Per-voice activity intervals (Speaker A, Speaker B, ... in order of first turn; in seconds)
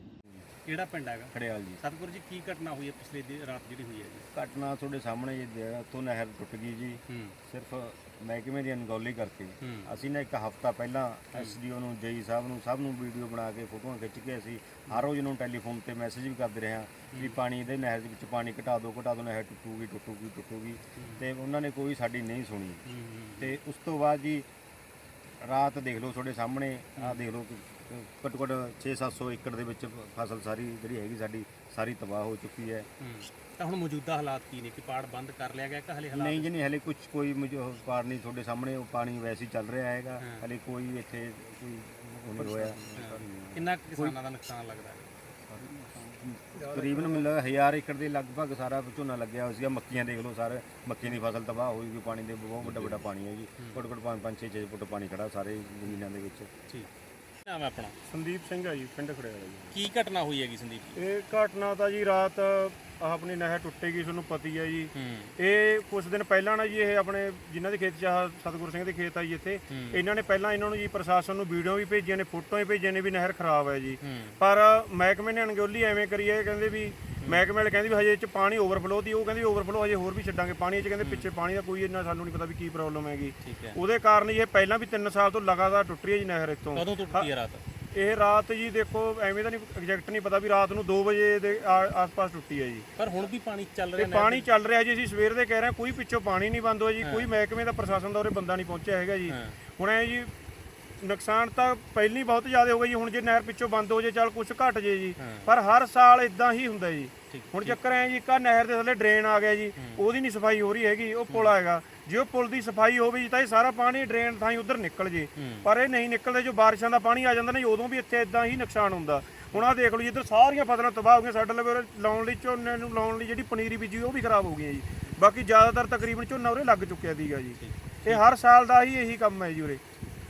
Speaker A: 0.7-4.2, 7.1-7.3, 9.6-9.9, 17.1-17.4, 21.0-21.2, 22.9-23.6, 27.0-27.2, 33.0-36.5, 40.2-40.5, 42.4-45.1, 52.6-53.0, 57.5-57.9, 59.7-61.0, 64.9-65.3, 69.7-70.0, 74.0-74.4, 81.0-81.3, 83.4-83.8, 86.7-87.6, 93.0-94.5, 97.0-97.3, 99.3-99.6, 105.2-105.5, 107.3-108.0, 109.8-110.0, 111.3-111.6, 115.3-115.7, 127.6-128.2
Speaker B: 1.3-1.8, 4.3-22.8, 23.4-24.4, 25.4-32.9, 36.1-44.1, 45.5-56.5
Speaker C: 46.6-47.2, 58.1-59.7, 61.0-87.3, 87.9-92.9, 94.0-100.3, 101.0-129.8